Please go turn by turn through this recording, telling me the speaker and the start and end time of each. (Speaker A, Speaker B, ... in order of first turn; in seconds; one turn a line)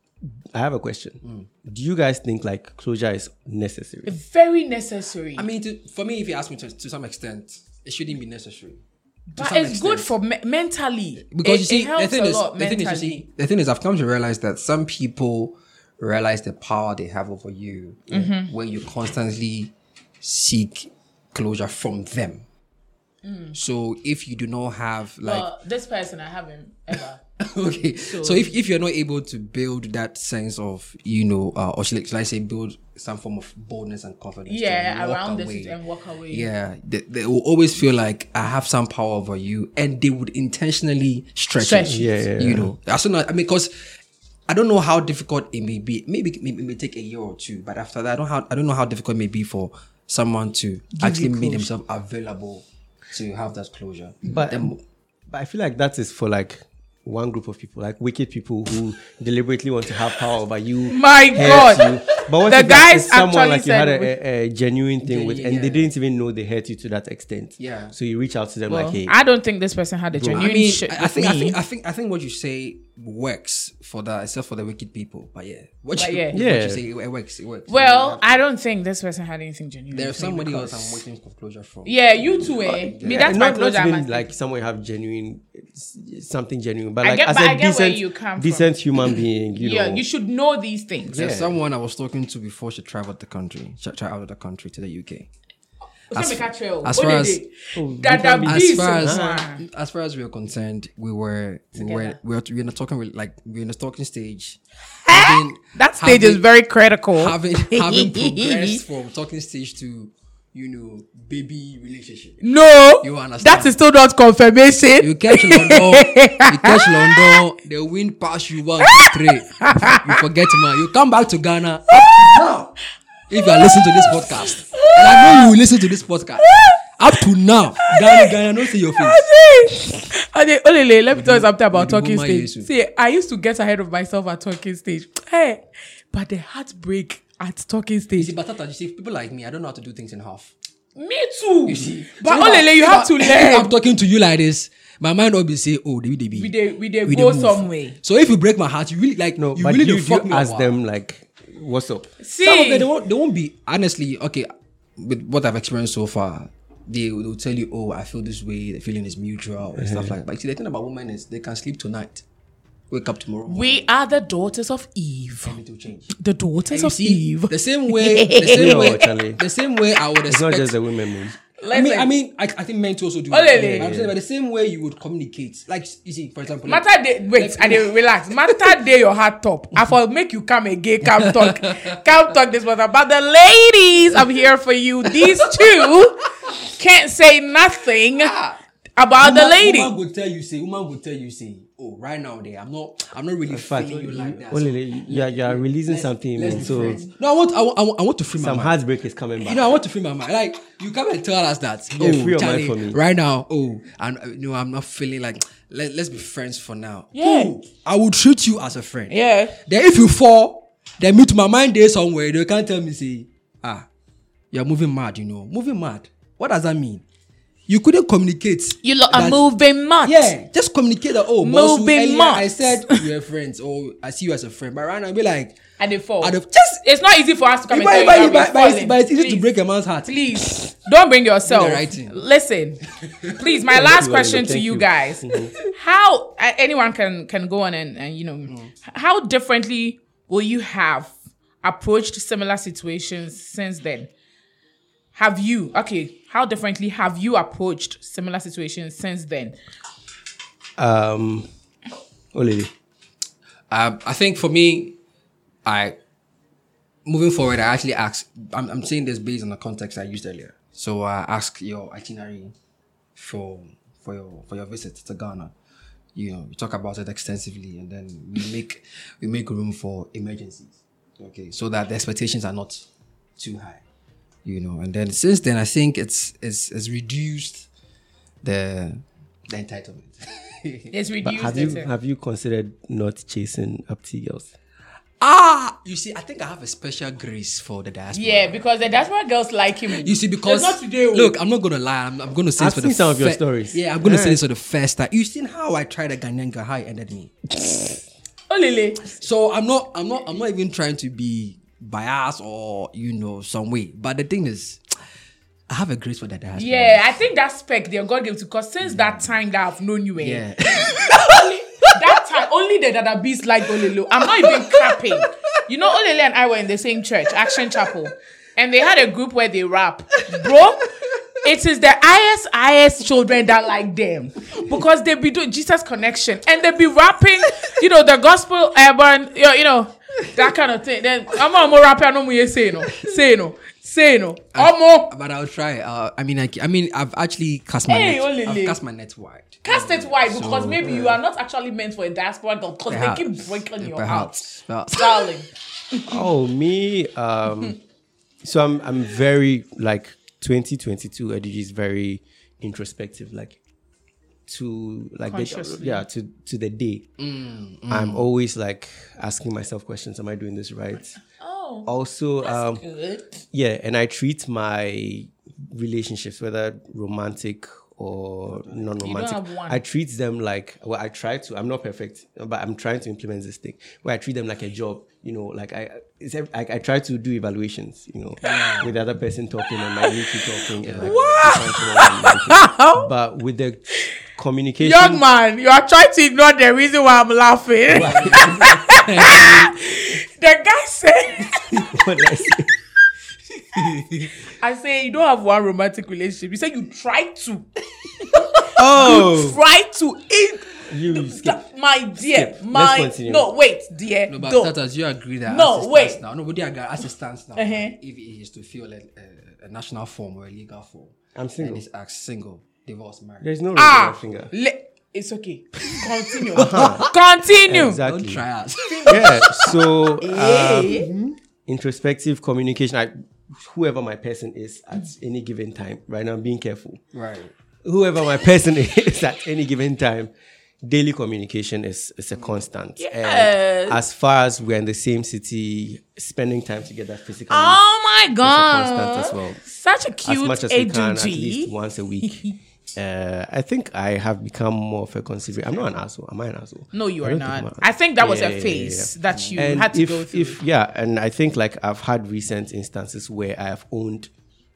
Speaker A: 0.2-4.2
Speaker B: 1.2-1.5
Speaker C: 4.1-5.5
Speaker B: 5.4-8.8
Speaker C: 9.3-13.2
Speaker B: 9.4-10.2
Speaker B: 11.3-22.4
Speaker C: 18.1-18.5
Speaker C: 23.2-23.6
Speaker B: 23.6-25.5
Speaker C: 25.2-27.2
Speaker B: 27.4-35.8
Speaker C: 28.0-28.6
Speaker C: 34.5-36.5
Speaker B: 36.3-43.7
Speaker C: 41.6-42.1
Speaker A: 41.9-42.7
Speaker B: 44.5-54.8
Speaker C: 51.0-51.7
Speaker A: 54.3-54.8
Speaker A: 55.3-69.1
Speaker C: 60.9-61.9
Speaker C: 62.5-64.1
Speaker B: 65.0-65.9
Speaker B: 67.6-67.9
Speaker C: 68.7-71.6
Speaker A: 70.1-70.5
Speaker B: 70.3-78.4
Speaker C: 76.0-76.4
Speaker A: 76.3-76.8
Speaker C: 77.7-81.0
Speaker B: 79.9-83.3
Speaker C: 81.8-84.3
Speaker A: 83.0-90.0
Speaker C: 87.0-88.7
Speaker C: 89.6-91.3
Speaker B: 91.1-95.3
Speaker A: 91.1-91.5
Speaker C: 96.1-99.6
Speaker B: 96.1-97.4
Speaker A: 97.8-99.3
Speaker B: 98.5-106.4
Speaker C: 101.8-102.2
Speaker C: 105.1-108.8
Speaker B: 107.2-112.4
Speaker C: 112.4-117.4
Speaker B: 113.0-113.8
Speaker B: 115.0-122.7
Speaker C: 118.8-120.2
Speaker C: 121.9-122.3
Speaker B: 123.3-129.2
Speaker C: 123.4-124.1
Speaker C: 124.7-125.5
Speaker C: 126.4-126.8
Speaker C: 127.9-128.3
Speaker C: 129.0-138.3
Speaker B: 131.1-132.7
Speaker B: 138.2-140.5
Speaker C: 141.0-143.7
Speaker B: 141.7-146.5
Speaker C: 146.3-148.0
Speaker B: 147.1-150.8
Speaker A: 149.4-152.1
Speaker C: 152.2-152.9
Speaker B: 152.4-162.2
Speaker A: 159.8-160.2
Speaker B: 162.9-163.8
Speaker C: 163.5-165.6
Speaker B: 165.4-166.2
Speaker C: 166.2-169.1
Speaker B: 166.7-170.8
Speaker A: 168.5-169.4
Speaker A: 170.3-171.3
Speaker C: 171.6-172.1
Speaker B: 171.7-178.6
Speaker C: 173.3-173.9
Speaker A: 173.5-174.1
Speaker C: 176.7-186.3
Speaker B: 181.0-181.9
Speaker B: 185.4-186.0
Speaker C: 186.8-188.3
Speaker B: 188.2-188.6
Speaker C: 189.0-189.9
Speaker B: 189.2-198.8
Speaker A: 193.5-197.0
Speaker C: 196.4-197.1
Speaker A: 198.4-199.8
Speaker B: 199.4-213.9
Speaker A: 202.0-203.0
Speaker C: 207.2-207.6
Speaker C: 209.1-209.6
Speaker B: 214.5-217.0
Speaker B: 217.7-219.4
Speaker C: 218.8-220.3
Speaker B: 220.0-225.6
Speaker C: 221.4-223.0
Speaker C: 225.8-229.5
Speaker B: 226.2-226.8
Speaker B: 227.7-230.6
Speaker C: 230.1-232.8
Speaker B: 231.4-232.2
Speaker B: 233.1-233.4
Speaker C: 233.3-244.1
Speaker A: 233.7-235.5
Speaker B: 238.5-238.7
Speaker C: 245.2-249.6
Speaker A: 250.8-251.5
Speaker A: 252.3-252.7
Speaker B: 253.7-255.0
Speaker B: 255.7-256.0
Speaker B: 257.1-262.5
Speaker B: 263.2-265.5
Speaker B: 266.1-272.9
Speaker B: 273.4-273.8
Speaker B: 274.4-277.7
Speaker B: 278.4-280.9
Speaker C: 280.9-281.9
Speaker A: 281.2-284.5
Speaker B: 285.2-288.6
Speaker C: 288.1-291.4
Speaker B: 290.0-297.5
Speaker A: 292.6-294.4
Speaker C: 298.5-299.1
Speaker B: 299.1-304.8
Speaker B: 305.7-307.2
Speaker C: 306.6-320.9
Speaker B: 308.9-309.3
Speaker B: 310.2-311.9
Speaker B: 314.2-315.3
Speaker B: 317.5-317.9
Speaker B: 320.4-320.8
Speaker C: 321.4-335.1
Speaker B: 334.6-341.1
Speaker C: 337.9-338.8
Speaker C: 339.6-346.2
Speaker B: 342.9-345.3
Speaker A: 346.1-347.8
Speaker A: 348.4-353.6
Speaker A: 354.5-357.1
Speaker C: 355.3-356.1
Speaker B: 357.2-358.3
Speaker A: 357.9-361.2
Speaker C: 361.4-361.9
Speaker A: 361.9-362.8
Speaker C: 362.4-363.4
Speaker A: 363.5-385.2
Speaker B: 368.5-368.9
Speaker C: 369.0-369.8
Speaker B: 378.4-378.9
Speaker B: 380.8-381.2
Speaker C: 381.0-383.1
Speaker C: 384.8-392.0
Speaker B: 387.9-389.7
Speaker A: 388.0-388.5
Speaker A: 391.9-392.7
Speaker B: 393.8-394.3
Speaker C: 394.6-397.7
Speaker C: 398.2-404.7
Speaker A: 398.8-399.6
Speaker A: 400.9-401.6
Speaker A: 402.2-403.5
Speaker B: 404.3-413.5
Speaker C: 405.5-406.2
Speaker C: 407.6-407.9
Speaker A: 411.4-411.8
Speaker A: 413.4-414.5
Speaker C: 413.8-418.0
Speaker A: 416.6-417.1
Speaker B: 416.6-417.1
Speaker A: 417.7-418.4
Speaker B: 417.9-419.4
Speaker C: 418.9-419.7
Speaker A: 419.1-421.0
Speaker C: 420.2-421.1
Speaker B: 420.9-421.4
Speaker A: 421.7-427.0
Speaker B: 427.1-427.5
Speaker A: 427.9-430.3
Speaker A: 430.8-437.8
Speaker C: 433.0-434.0
Speaker C: 437.5-442.6
Speaker A: 438.4-439.6
Speaker A: 440.2-442.4
Speaker A: 442.9-454.3
Speaker C: 446.9-450.6
Speaker B: 449.3-449.7